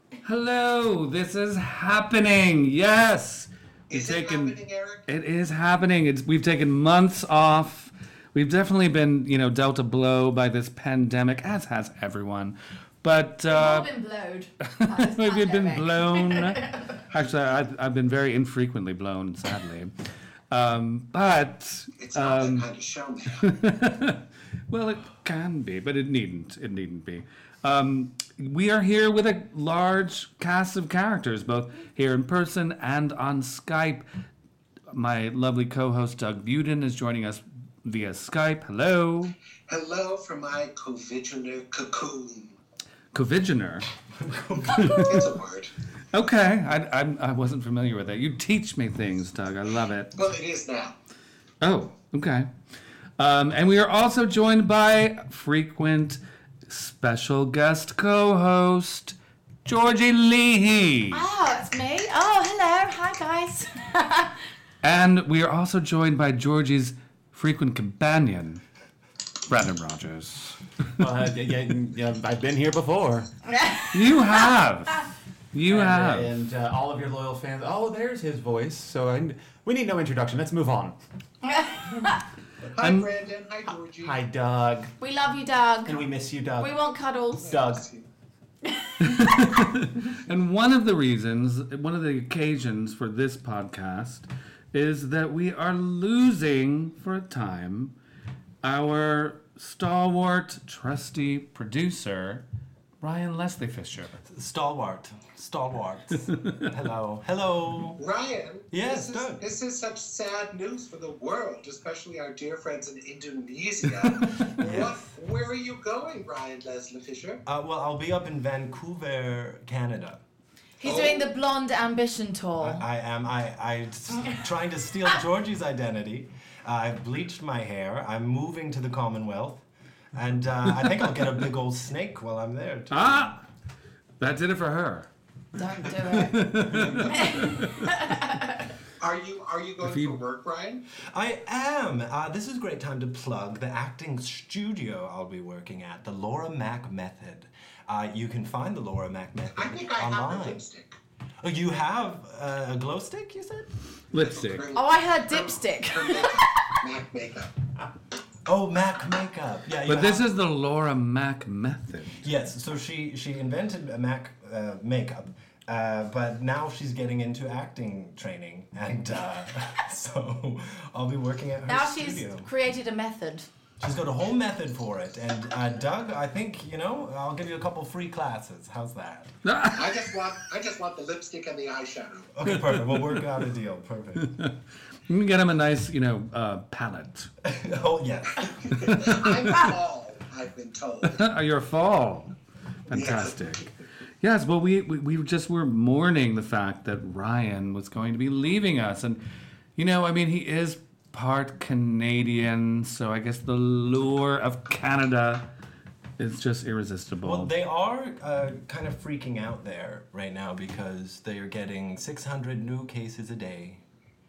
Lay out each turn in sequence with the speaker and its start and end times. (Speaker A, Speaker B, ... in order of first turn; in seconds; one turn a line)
Speaker A: 0.2-4.5
Speaker B: 3.9-5.1
Speaker A: 5.1-13.9
Speaker C: 13.5-17.0
Speaker A: 14.8-19.9
Speaker A: 20.5-22.7
Speaker B: 22.0-23.5
Speaker A: 23.3-34.0
Speaker A: 34.9-39.3
Speaker B: 39.7-42.6
Speaker A: 43.1-43.9
Speaker D: 44.1-45.1
Speaker A: 44.7-45.2
Speaker B: 45.0-45.7
Speaker A: 46.1-50.1
Speaker B: 50.1-50.9
Speaker A: 51.6-52.5
Speaker A: 53.2-61.3
Speaker C: 61.1-64.3
Speaker A: 64.8-68.6
Speaker A: 69.5-71.0
Speaker E: 71.0-73.3
Speaker C: 73.5-74.5
Speaker A: 73.9-76.3
Speaker E: 75.7-81.0
Speaker C: 81.4-82.2
Speaker B: 82.7-84.2
Speaker A: 82.8-83.1
Speaker E: 84.0-84.9
Speaker C: 85.0-86.0
Speaker E: 85.8-86.7
Speaker C: 86.6-87.5
Speaker E: 87.4-87.8
Speaker B: 87.4-88.0
Speaker C: 88.7-89.7
Speaker A: 89.0-97.9
Speaker A: 98.6-102.4
Speaker A: 103.0-104.2
Speaker D: 104.2-108.0
Speaker A: 106.3-106.6
Speaker B: 108.0-117.4
Speaker D: 108.7-109.4
Speaker D: 114.4-115.1
Speaker D: 117.5-120.2
Speaker C: 120.8-122.8
Speaker B: 120.8-121.3
Speaker D: 122.6-133.4
Speaker A: 132.9-133.4
Speaker A: 134.2-135.1
Speaker C: 135.5-136.5
Speaker A: 135.9-138.0
Speaker C: 137.0-138.7
Speaker B: 139.0-140.8
Speaker A: 139.8-140.2
Speaker D: 141.1-150.6
Speaker B: 149.5-150.9
Speaker D: 151.4-153.7
Speaker A: 154.1-154.6
Speaker B: 154.2-157.5
Speaker C: 154.7-156.8
Speaker D: 158.4-160.3
Speaker A: 159.9-162.2
Speaker D: 162.2-172.5
Speaker C: 171.7-173.5
Speaker D: 173.8-179.3
Speaker A: 179.4-180.0
Speaker B: 179.7-182.3
Speaker D: 182.3-184.3
Speaker A: 184.2-184.5
Speaker A: 185.1-187.3
Speaker D: 187.4-189.1
Speaker B: 188.6-191.2
Speaker A: 191.1-192.3
Speaker A: 192.9-193.7
Speaker B: 192.9-193.4
Speaker A: 194.2-199.2
Speaker A: 199.8-205.4
Speaker A: 206.2-207.5
Speaker D: 207.2-213.8